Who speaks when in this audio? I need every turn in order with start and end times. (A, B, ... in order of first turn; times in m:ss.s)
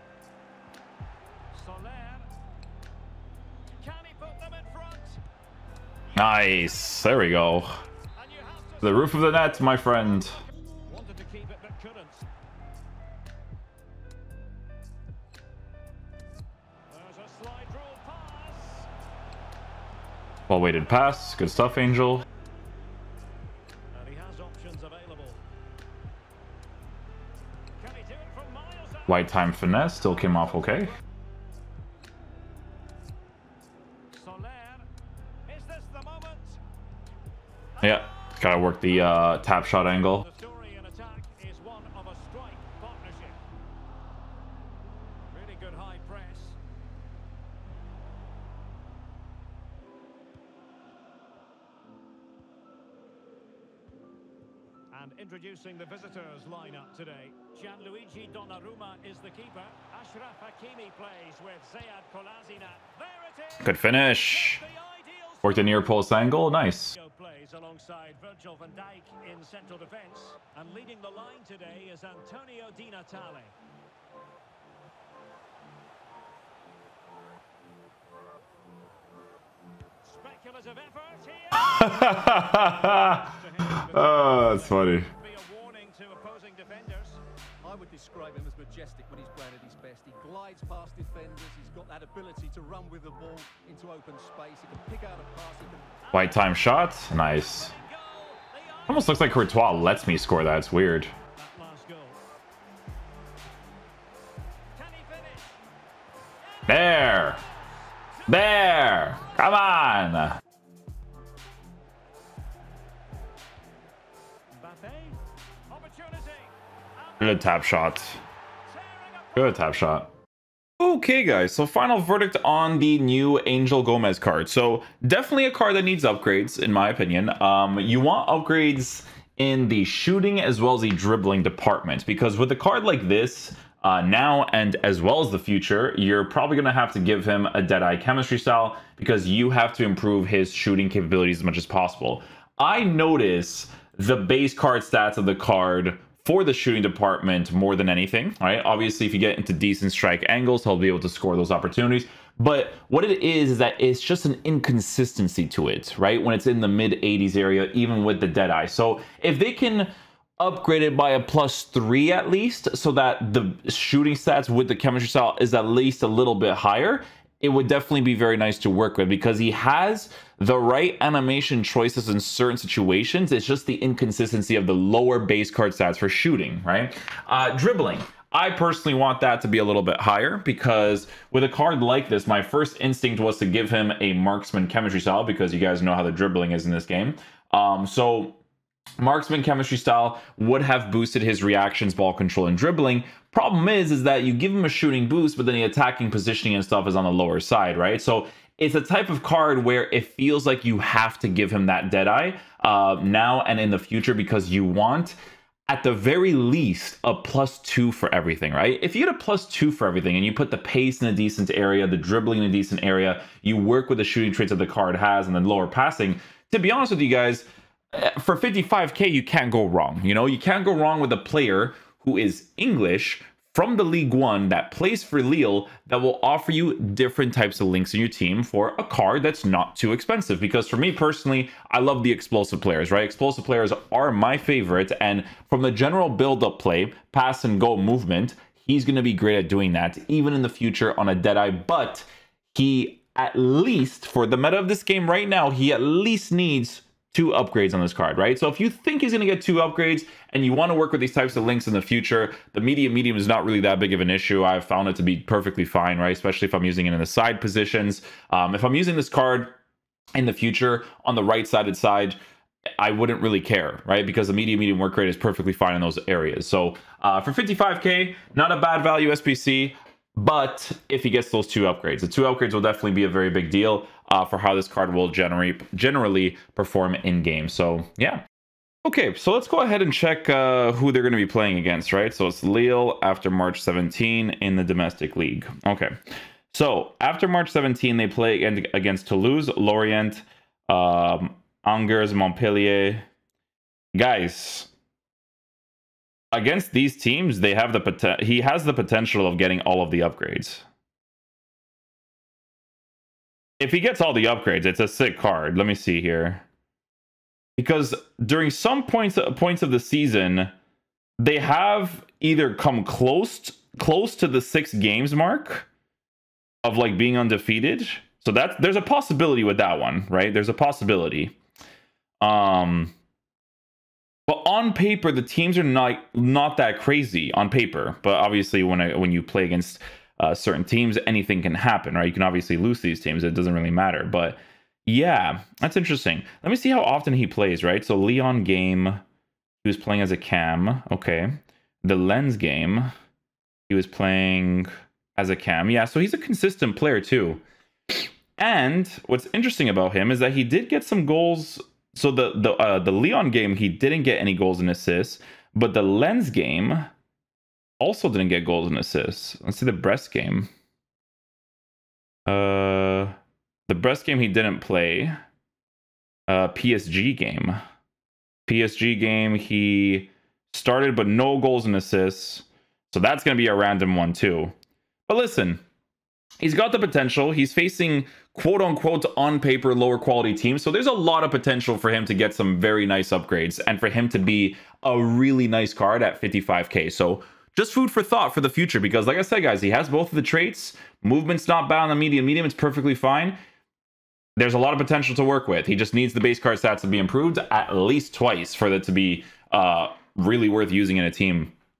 0:01.5-0:02.3 A
0:03.8-0:05.2 A
0:06.1-0:12.3 A
0:06.2-0:07.8 B
0:08.8-0:10.4 B
0:16.9-0:18.9 A
0:20.5-0:22.2 B
0:21.1-0:21.4 A
0:23.9-0:25.4 A
0:27.8-0:31.0 A
0:29.1-0:31.0 B
0:34.1-0:34.9 A
0:35.5-0:36.6 A
0:37.8-0:39.3 A
0:37.8-0:40.3 B
0:40.0-0:43.4 A
0:45.3-0:46.6 A
0:54.9-1:05.7 A
1:03.6-1:04.6 B
1:05.4-1:07.0 B
1:06.9-1:13.5 A
1:20.0-1:27.2 A
1:21.6-1:25.1 B
1:27.6-1:35.9 C
1:36.0-1:40.0 A
1:36.1-1:37.7 B
1:38.9-1:41.1 B
1:41.3-1:42.2 A
1:44.8-1:45.6 A
1:46.4-1:49.3 A
1:46.7-1:47.4 B
1:48.3-1:50.4 B
1:54.5-1:58.0 A
1:57.2-1:58.2 B
1:58.7-1:59.7 A
1:59.4-2:00.1 B
2:00.8-3:08.4 B
3:09.0-3:25.2 B
3:25.7-4:19.6 B
4:20.2-4:22.2 B
4:22.8-4:38.2 B
4:38.8-4:46.0 B
4:46.5-4:53.0 B
4:53.9-4:54.7 B
4:56.3-5:00.6 B
5:03.6-5:06.4 B
5:07.6-5:10.5 B
5:11.2-5:15.7 B
5:16.6-5:21.4 B
5:22.2-5:22.9 B
5:24.3-5:39.0 B
5:39.6-5:42.9 B
5:43.7-5:56.9 B
5:57.8-6:00.5 B
6:02.3-6:03.2 B
6:03.7-6:05.2 B
6:06.3-6:07.6 B
6:08.5-6:14.5 B
6:15.1-6:15.6 B
6:16.4-6:33.4 B
6:34.4-6:41.5 B